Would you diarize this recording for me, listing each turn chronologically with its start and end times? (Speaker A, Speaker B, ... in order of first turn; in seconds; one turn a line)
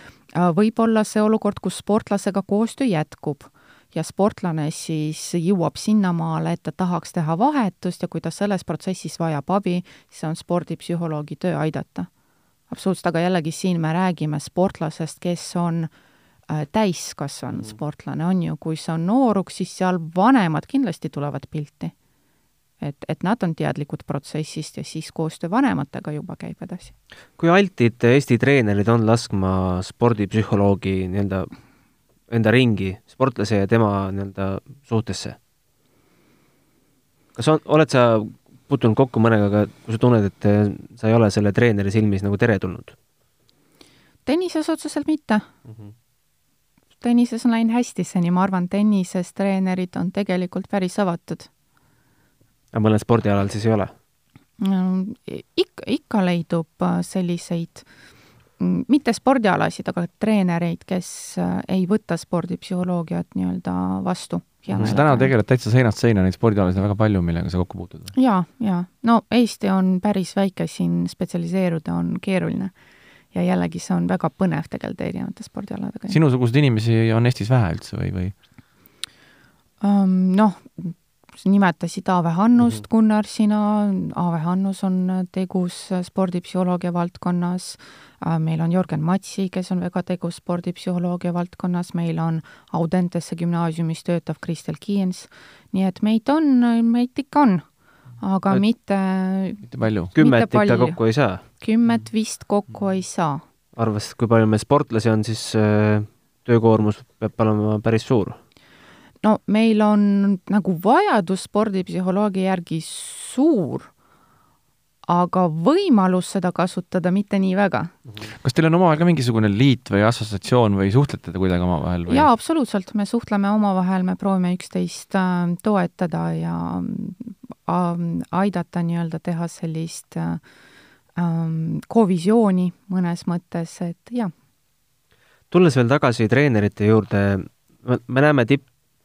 Speaker A: 0.3-12.1
Speaker A: 12.7-15.9
Speaker A: 16.5-21.9
Speaker A: 22.8-26.9
Speaker B: 27.4-31.5
Speaker B: 32.3-35.4
Speaker B: 37.4-43.0
Speaker A: 44.2-45.5
Speaker B: 45.7-45.9
Speaker A: 47.0-51.5
Speaker B: 52.7-53.9
Speaker A: 54.6-57.8
Speaker A: 58.6-65.3
Speaker B: 64.7-65.0
Speaker C: 64.8-68.1
Speaker A: 68.1-72.7
Speaker A: 73.3-76.2
Speaker C: 76.1-78.3
Speaker A: 79.8-97.7
Speaker A: 98.2-103.4
Speaker C: 99.7-100.1
Speaker B: 100.1-101.4
Speaker B: 103.7-108.4
Speaker A: 109.2-113.9
Speaker A: 115.1-117.9
Speaker C: 118.3-122.3
Speaker A: 122.1-130.4
Speaker A: 131.2-134.3
Speaker B: 135.5-138.7